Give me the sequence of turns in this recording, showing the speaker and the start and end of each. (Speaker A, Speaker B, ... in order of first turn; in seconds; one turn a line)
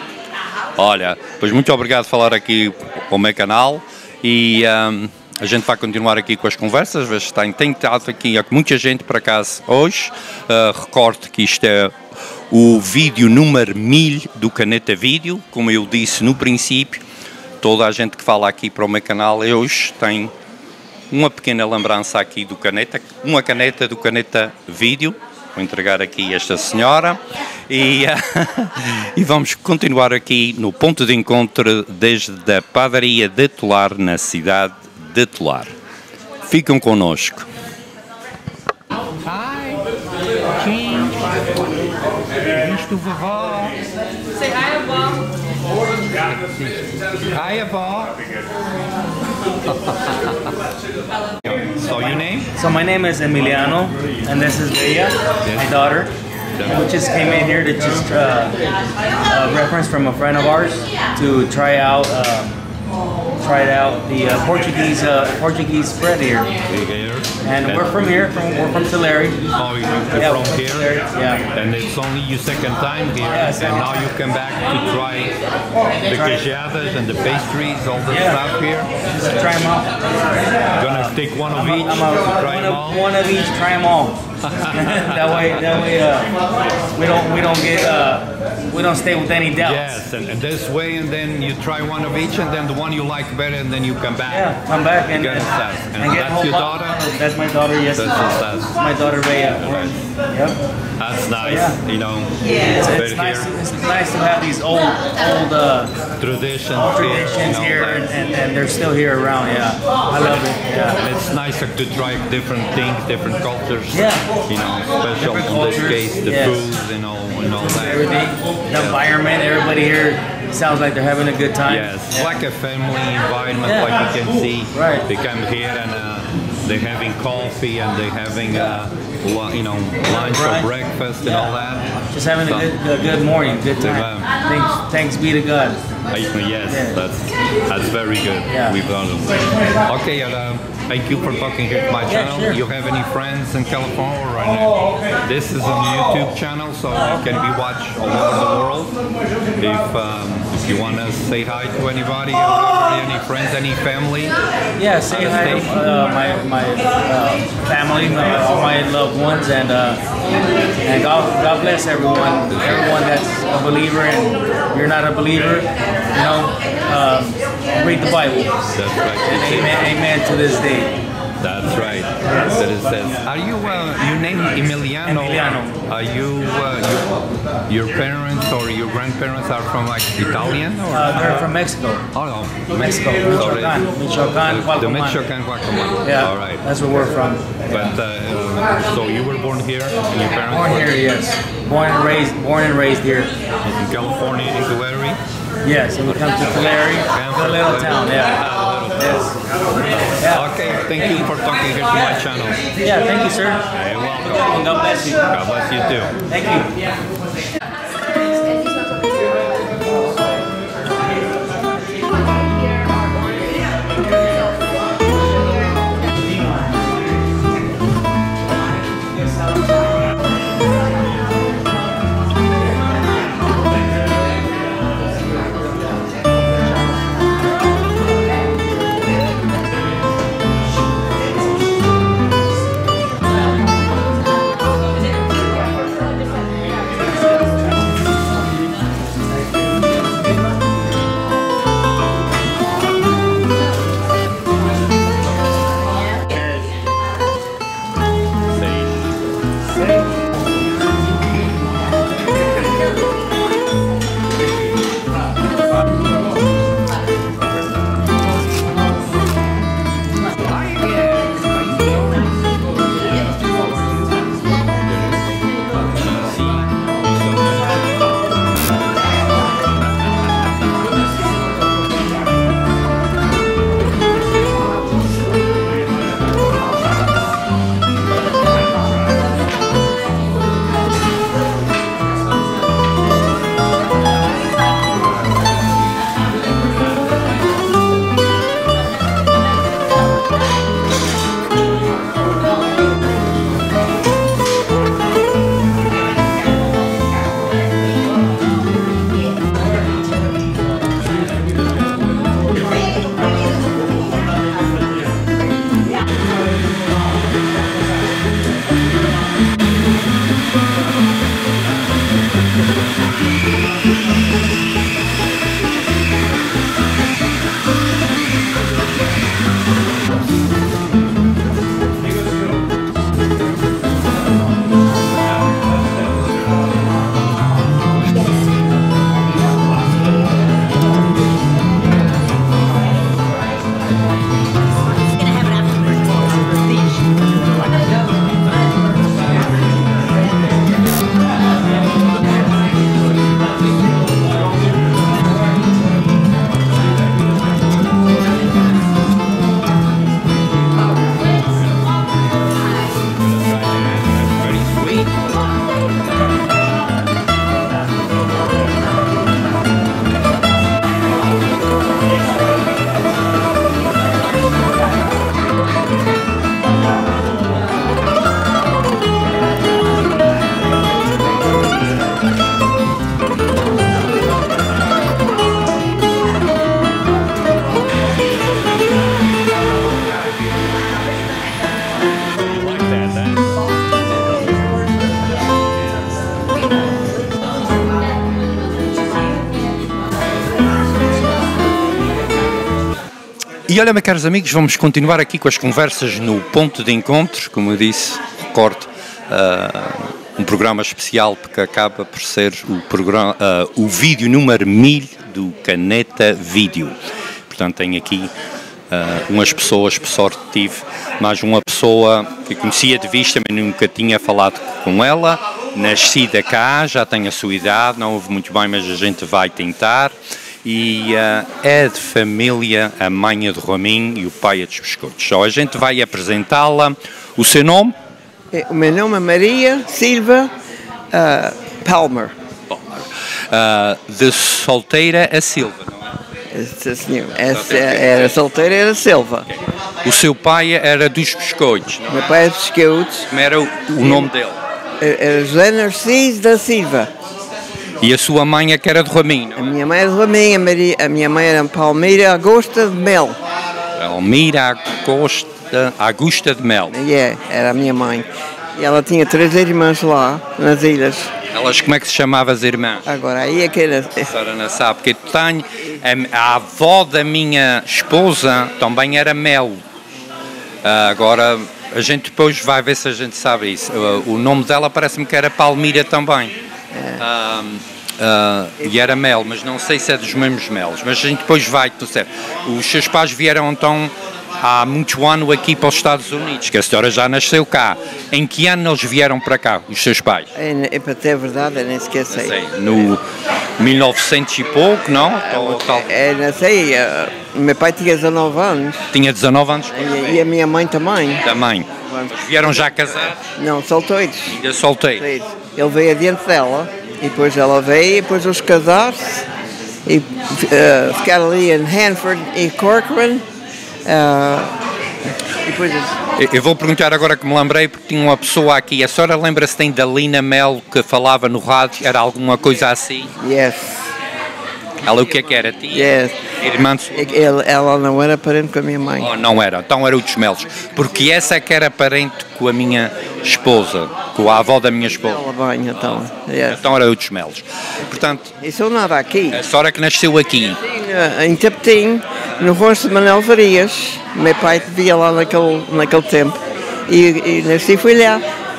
Speaker A: 0.8-12.0
Speaker A: 12.5-17.0
Speaker A: 17.6-20.3
Speaker A: 21.1-35.7
Speaker A: 36.5-37.5
Speaker A: 39.2-39.9
Speaker A: 40.6-41.7
Speaker A: 42.4-43.8
Speaker A: 46.2-48.2
Speaker A: 49.7-50.3
Speaker A: 51.4-52.5
Speaker B: 52.6-56.1
Speaker A: 55.5-55.8
Speaker A: 56.5-56.9
Speaker B: 56.7-58.6
Speaker B: 59.3-62.5
Speaker B: 63.4-66.5
Speaker A: 66.7-68.2
Speaker B: 67.4-69.4
Speaker A: 69.5-70.9
Speaker B: 70.2-71.5
Speaker A: 71.5-75.3
Speaker B: 73.2-74.1
Speaker A: 76.1-78.9
Speaker B: 76.1-76.4
Speaker B: 78.1-78.4
Speaker B: 79.1-80.1
Speaker A: 80.7-83.0
Speaker B: 80.8-84.2
Speaker A: 84.5-85.1
Speaker B: 84.7-86.3
Speaker B: 86.9-90.0
Speaker A: 89.6-97.0
Speaker B: 94.3-100.6
Speaker A: 97.9-98.8
Speaker A: 99.6-100.0
Speaker A: 101.0-103.6
Speaker B: 101.4-101.8
Speaker B: 102.6-105.9
Speaker A: 106.2-108.1
Speaker B: 106.8-111.0
Speaker A: 111.0-118.1
Speaker B: 113.9-114.2
Speaker B: 115.2-116.6
Speaker B: 117.5-121.9
Speaker A: 118.7-119.0
Speaker A: 121.7-132.8
Speaker B: 123.6-124.0
Speaker B: 124.7-125.0
Speaker B: 130.1-130.7
Speaker B: 131.2-131.5
Speaker B: 132.1-135.8
Speaker A: 133.8-134.3
Speaker A: 136.1-148.9
Speaker B: 136.7-137.0
Speaker B: 138.5-138.8
Speaker B: 142.1-142.6
Speaker A: 149.6-154.3
Speaker B: 154.8-160.0
Speaker A: 155.1-155.8
Speaker B: 160.8-168.6
Speaker A: 162.5-162.9
Speaker A: 168.7-169.9
Speaker B: 169.3-170.9
Speaker A: 171.4-181.5
Speaker B: 175.0-175.8
Speaker B: 180.9-182.0
Speaker A: 182.1-183.9
Speaker B: 182.7-185.2
Speaker A: 184.4-186.7
Speaker B: 186.0-187.6
Speaker A: 187.7-191.0
Speaker B: 190.5-193.3
Speaker A: 193.6-195.2
Speaker B: 195.6-199.3
Speaker A: 196.0-199.2
Speaker A: 199.8-202.6
Speaker B: 200.2-200.5
Speaker B: 202.8-203.7
Speaker A: 203.7-204.7
Speaker B: 204.4-205.2
Speaker A: 205.3-206.2
Speaker B: 206.3-206.7
Speaker A: 248.6-249.0
Speaker A: 260.5-262.3
Speaker A: 266.0-267.9
Speaker A: 353.5-355.1
Speaker A: 382.4-383.5
Speaker A: 393.7-406.9
Speaker A: 407.5-408.3
Speaker A: 408.9-427.9
Speaker C: 428.5-430.5
Speaker C: 431.1-432.3
Speaker A: 432.7-436.1
Speaker C: 436.5-439.5
Speaker A: 437.4-438.4
Speaker A: 439.5-442.3
Speaker C: 442.1-443.3
Speaker A: 443.3-444.6
Speaker C: 444.0-444.3
Speaker C: 445.0-447.1
Speaker A: 448.0-449.7
Speaker C: 449.6-453.4
Speaker A: 454.0-456.9
Speaker C: 456.9-461.3
Speaker A: 461.5-463.1
Speaker C: 463.1-464.3
Speaker A: 464.2-469.8
Speaker A: 470.8-476.5
Speaker C: 476.9-477.2
Speaker A: 477.2-490.5
Speaker C: 490.5-492.6
Speaker A: 492.3-493.2
Speaker A: 493.8-496.1
Speaker C: 495.3-499.1
Speaker A: 499.1-500.4
Speaker C: 499.9-501.4
Speaker A: 501.4-503.5
Speaker C: 502.0-502.7
Speaker C: 503.6-504.6
Speaker A: 504.5-505.2
Speaker C: 505.2-509.4
Speaker C: 510.1-513.4
Speaker C: 514.0-514.7
Speaker C: 515.6-516.1
Speaker A: 516.4-523.3
Speaker C: 523.4-524.0
Speaker A: 525.0-527.5
Speaker C: 525.9-526.4
Speaker C: 527.1-529.3
Speaker A: 529.2-535.4
Speaker C: 535.2-536.8
Speaker A: 536.0-538.5
Speaker C: 538.6-539.6
Speaker A: 539.5-540.8
Speaker C: 540.8-548.4